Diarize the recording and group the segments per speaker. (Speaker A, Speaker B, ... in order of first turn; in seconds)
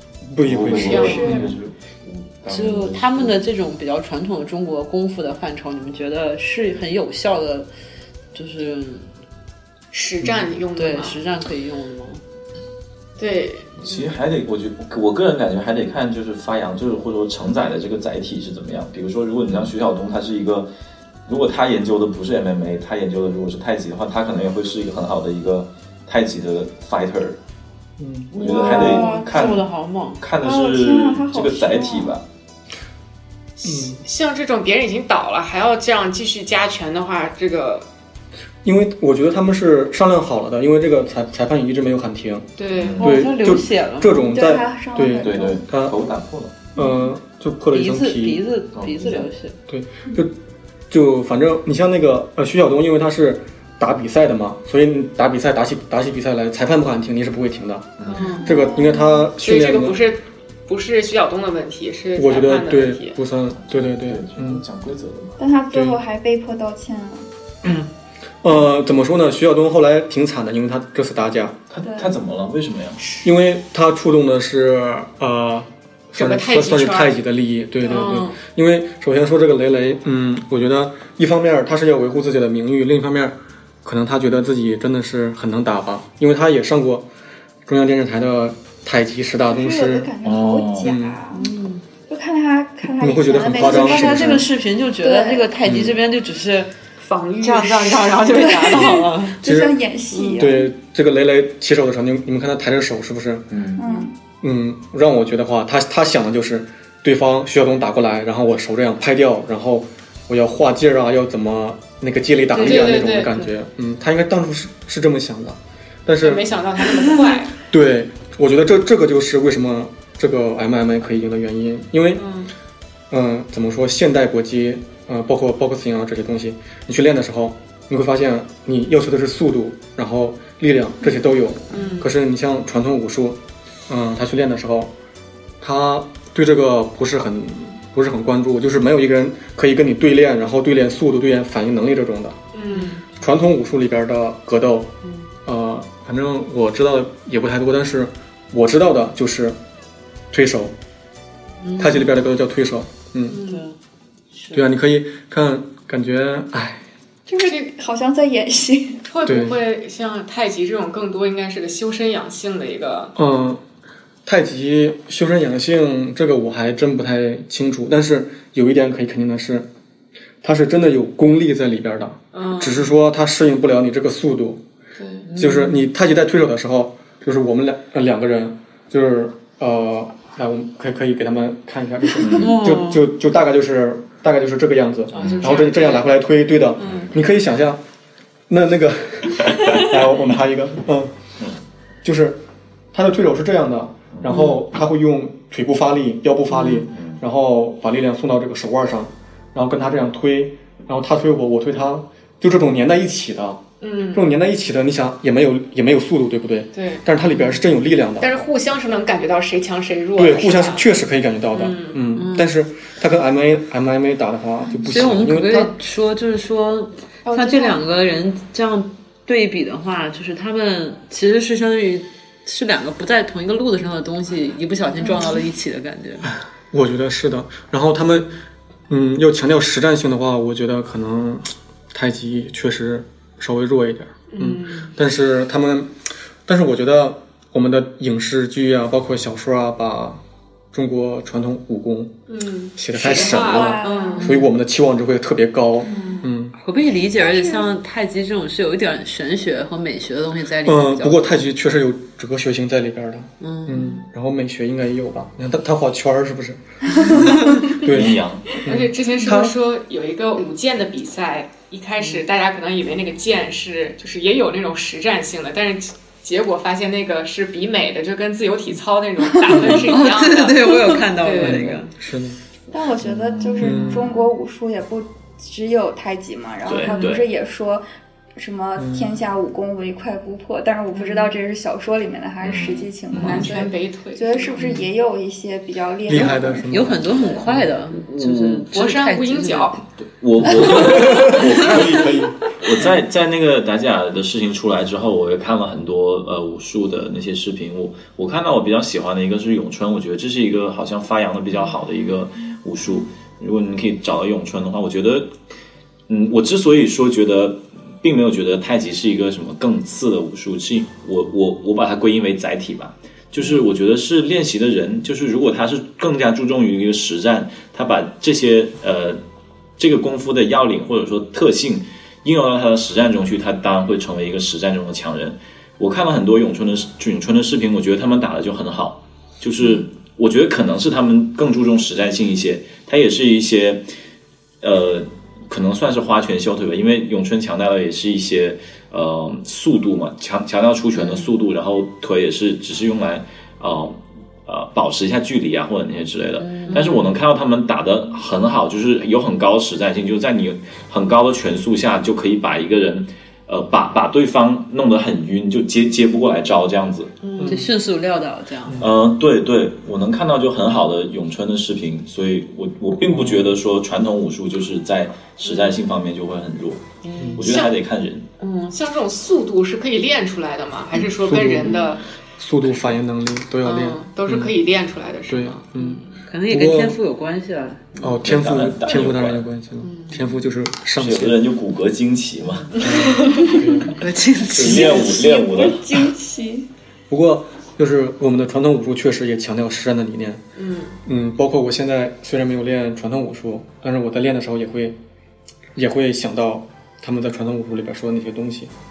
Speaker A: 0.3-1.6, 28.0-28.3, 33.6-34.0, 38.6-46.0, 46.8-48.4, 49.7-50.4, 50.9-60.0, 62.2-64.6, 65.7-66.0, 67.6-67.9, 68.4-71.6, 73.2-87.1, 87.7-90.1, 90.8-91.2, 93.0-94.5, 95.7-96.0, 99.4-99.8, 100.4-103.5, 104.4-116.5, 117.7-122.2, 123.1-134.9, 135.6-142.4, 143.1-144.9, 145.4-149.6, 150.3-150.8, 151.8-153.4, 154.5-156.8, 159.2-159.6, 163.2-163.6, 164.3-169.7, 170.4-174.6, 175.3-187.8, 188.5-191.1, 192.0-192.4, 192.9-208.5, 210.2-215.7, 226.7-228.3, 228.9-240.2, 240.7-242.1, 242.8-246.6, 250.6-259.5, 271.4-272.4, 273.6-274.1, 278.8-279.2, 286.1-287.7, 290.4-292.4, 357.4-357.7, 358.7-358.9, 363.0-363.6, 367.2-367.4, 371.2-371.8, 372.4-374.6, 375.3-377.0, 378.0-381.4, 382.8-384.0, 387.1-390.4, 391.1-395.0, 395.8-398.7
Speaker B: 0.4-3.4, 13.8-20.7, 21.3-27.4, 28.4-29.7, 30.2-32.2, 42.8-43.2, 45.2-46.6, 48.7-49.3, 58.0-58.4, 63.6-65.4, 71.7-73.0, 90.2-90.9, 103.5-103.8, 182.2-182.6, 185.1-185.6, 194.1-194.4, 196.8-197.2, 257.8-258.6, 273.0-274.0, 276.6-277.3, 282.4-283.5, 287.0-288.7, 290.0-305.3, 306.1-319.2, 319.8-333.9, 334.6-357.2, 358.8-366.8, 367.4-368.3, 378.2-379.4, 381.0-382.8, 384.5-385.9
Speaker C: 0.7-1.4, 9.9-11.2, 13.2-14.0, 33.6-37.9, 42.6-43.1, 58.1-58.6, 59.4-63.2, 76.2-77.1, 77.9-78.3, 97.0-99.1, 112.6-113.3, 116.2-117.5, 122.2-122.5, 131.7-132.1, 142.5-143.1, 153.3-153.6, 157.4-157.7, 159.1-163.1, 172.3-172.9, 175.0-175.3, 185.2-186.1, 203.8-204.3, 206.7-207.1, 208.2-210.9, 211.5-212.0, 217.2-217.8, 225.1-225.4, 234.3-234.9, 242.3-244.4, 246.0-246.2, 258.6-271.8, 276.9-277.1, 283.1-284.8, 288.7-289.8, 346.7-347.1, 365.5-365.8, 367.4-367.8, 368.4-372.1, 373.6-376.2, 379.8-380.4, 382.8-383.6, 390.6-391.0
Speaker D: 0.7-1.5, 28.4-29.6, 30.4-32.2, 44.3-45.6, 46.8-47.1, 58.4-59.3, 65.4-67.3, 71.8-72.2, 89.5-91.5, 92.1-94.4, 95.0-95.5, 98.3-100.7, 103.8-104.1, 157.3-159.1, 243.1-244.3, 245.9-246.2, 247.2-247.7, 272.7-277.9, 278.4-287.3, 383.2-383.6, 384.6-386.7
Speaker E: 2.5-7.7, 8.3-9.1, 10.8-12.2, 28.3-30.2, 43.0-44.4, 47.7-49.6, 91.3-91.8, 93.4-96.7, 97.4-99.4, 100.1-100.5, 112.5-113.5, 117.0-117.3, 151.6-152.1, 153.4-153.8, 154.3-154.7, 175.3-175.9, 182.3-183.1, 196.5-196.8, 212.1-212.5, 214.8-226.3, 246.6-251.4, 253.4-254.0, 269.4-271.9, 284.6-284.8, 286.7-289.8, 290.5-291.9, 346.4-347.0, 357.2-358.8, 367.0-367.4, 376.3-378.2, 383.9-385.2